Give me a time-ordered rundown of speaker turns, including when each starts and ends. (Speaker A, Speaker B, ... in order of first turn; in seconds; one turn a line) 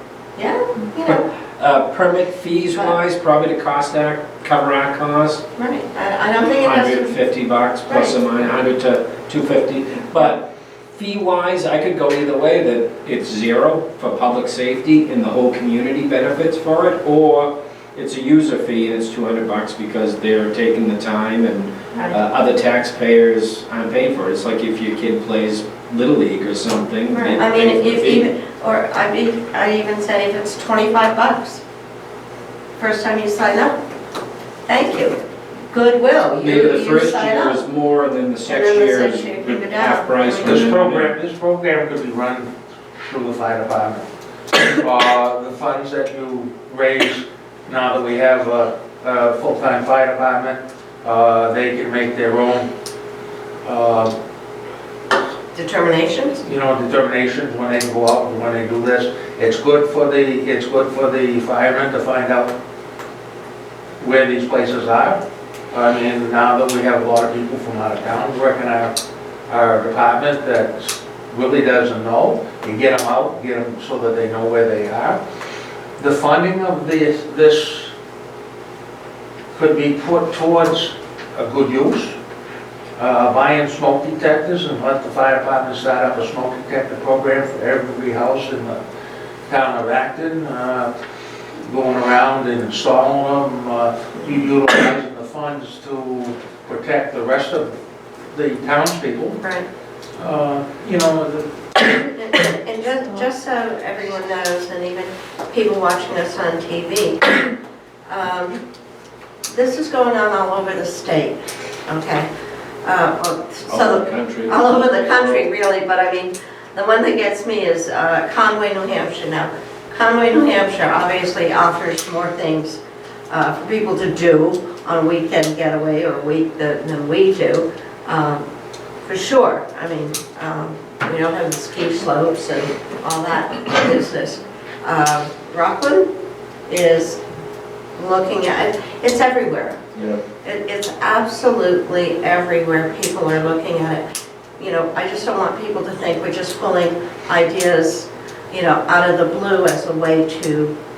Speaker A: 0.3-1.2
Speaker B: 1.6-5.4
Speaker A: 5.5-7.2
Speaker B: 6.6-28.3
Speaker A: 7.9-8.2
Speaker A: 27.1-31.6
Speaker A: 32.8-33.8
Speaker A: 34.7-35.2
Speaker A: 35.7-37.6
Speaker B: 36.4-41.1
Speaker A: 38.4-40.6
Speaker C: 40.4-52.7
Speaker C: 53.6-54.1
Speaker A: 55.5-56.4
Speaker C: 56.5-62.5
Speaker C: 64.0-68.9
Speaker C: 69.5-75.2
Speaker C: 76.0-77.9
Speaker C: 79.5-82.2
Speaker C: 83.0-88.8
Speaker C: 89.5-90.9
Speaker C: 91.6-97.7
Speaker C: 98.3-99.4
Speaker C: 100.2-101.5
Speaker A: 101.9-107.5
Speaker A: 108.1-108.6
Speaker A: 109.5-112.3
Speaker A: 112.8-128.4
Speaker B: 113.7-115.4
Speaker A: 129.0-136.1
Speaker A: 136.7-137.2
Speaker A: 137.9-139.8
Speaker B: 139.9-140.2
Speaker A: 140.4-144.0
Speaker A: 144.6-150.7